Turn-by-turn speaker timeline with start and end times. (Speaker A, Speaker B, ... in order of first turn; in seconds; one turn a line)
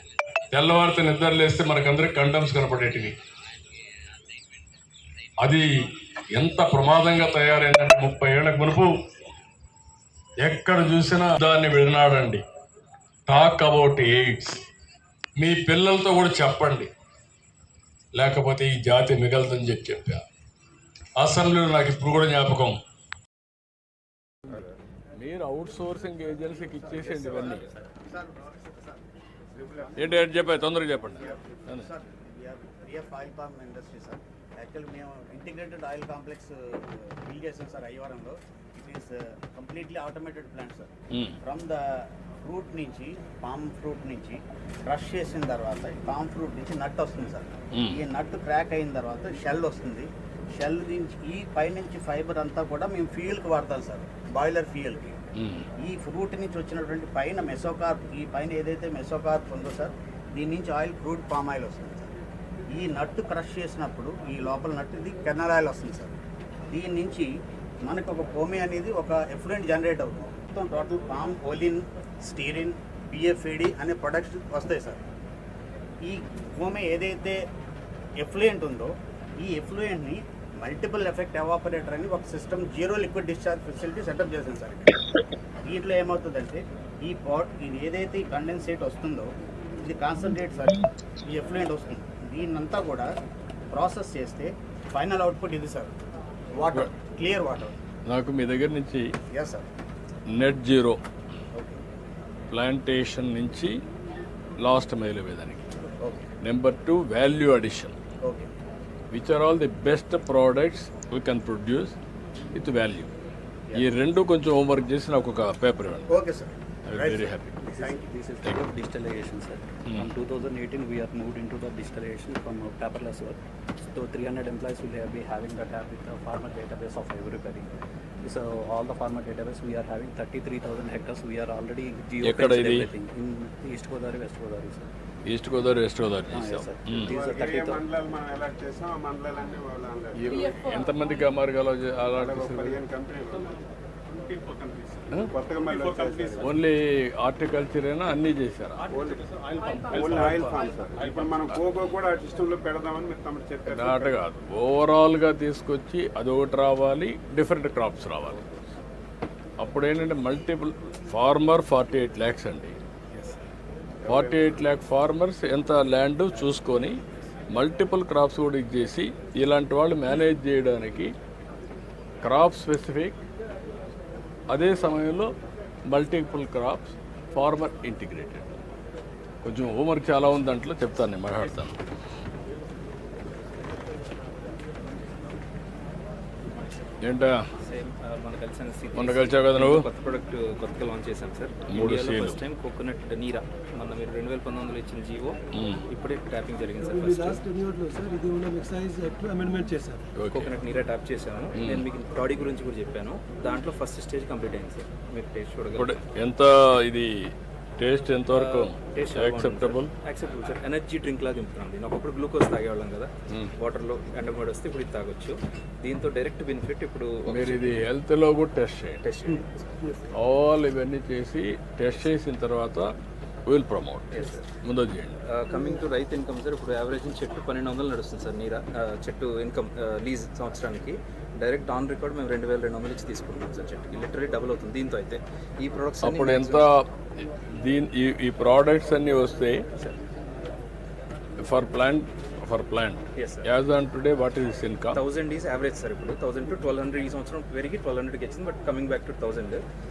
Speaker A: 0.5-3.1
Speaker A: 5.4-5.7
Speaker A: 6.3-8.9
Speaker A: 10.4-12.4
Speaker A: 13.3-14.6
Speaker A: 15.4-16.9
Speaker A: 18.1-20.2
Speaker A: 21.2-22.8
Speaker A: 25.2-27.6
Speaker B: 27.0-29.0
Speaker B: 29.8-30.2
Speaker A: 29.9-31.9
Speaker B: 31.1-40.9
Speaker A: 41.1-41.4
Speaker B: 41.4-55.1
Speaker A: 47.7-48.0
Speaker A: 55.4-55.6
Speaker B: 55.8-62.1
Speaker B: 62.7-66.2
Speaker B: 66.7-67.3
Speaker B: 67.8-75.0
Speaker B: 76.0-77.4
Speaker B: 78.2-85.0
Speaker B: 85.6-93.1
Speaker B: 93.7-95.9
Speaker B: 96.5-97.8
Speaker A: 98.0-99.1
Speaker B: 99.3-99.7
Speaker A: 100.3-101.0
Speaker A: 102.5-103.8
Speaker A: 104.6-105.7
Speaker B: 106.0-106.3
Speaker A: 106.4-108.0
Speaker B: 108.2-108.5
Speaker A: 109.1-112.0
Speaker A: 112.5-113.1
Speaker A: 113.8-116.1
Speaker B: 116.1-118.0
Speaker A: 116.9-117.6
Speaker C: 117.6-123.4
Speaker C: 123.9-127.7
Speaker C: 128.2-134.9
Speaker A: 132.2-132.9
Speaker A: 135.2-137.1
Speaker C: 136.3-137.8
Speaker D: 137.1-140.6
Speaker A: 140.2-142.8
Speaker D: 142.1-146.6
Speaker A: 146.4-148.8
Speaker D: 148.9-154.2
Speaker A: 153.7-158.6
Speaker A: 159.6-162.8
Speaker D: 164.0-164.6
Speaker A: 164.1-167.0
Speaker A: 167.5-171.1
Speaker A: 172.2-173.2
Speaker A: 174.5-175.3
Speaker A: 175.9-178.5
Speaker A: 179.4-181.7
Speaker E: 186.5-186.8
Speaker A: 187.0-187.4
Speaker E: 187.6-197.4
Speaker A: 188.9-189.9
Speaker A: 191.7-192.4
Speaker A: 195.5-195.8
Speaker F: 196.8-200.1
Speaker A: 200.2-200.5
Speaker E: 200.3-206.1
Speaker A: 201.5-201.8
Speaker A: 205.8-209.9
Speaker E: 208.3-217.8
Speaker A: 217.3-219.0
Speaker E: 219.0-220.0
Speaker A: 220.1-222.9
Speaker A: 223.4-224.1
Speaker E: 224.1-224.5
Speaker A: 224.6-225.2
Speaker E: 225.2-236.7
Speaker A: 236.0-239.6
Speaker E: 239.7-240.0
Speaker A: 241.4-245.0
Speaker E: 243.1-243.5
Speaker E: 244.9-249.6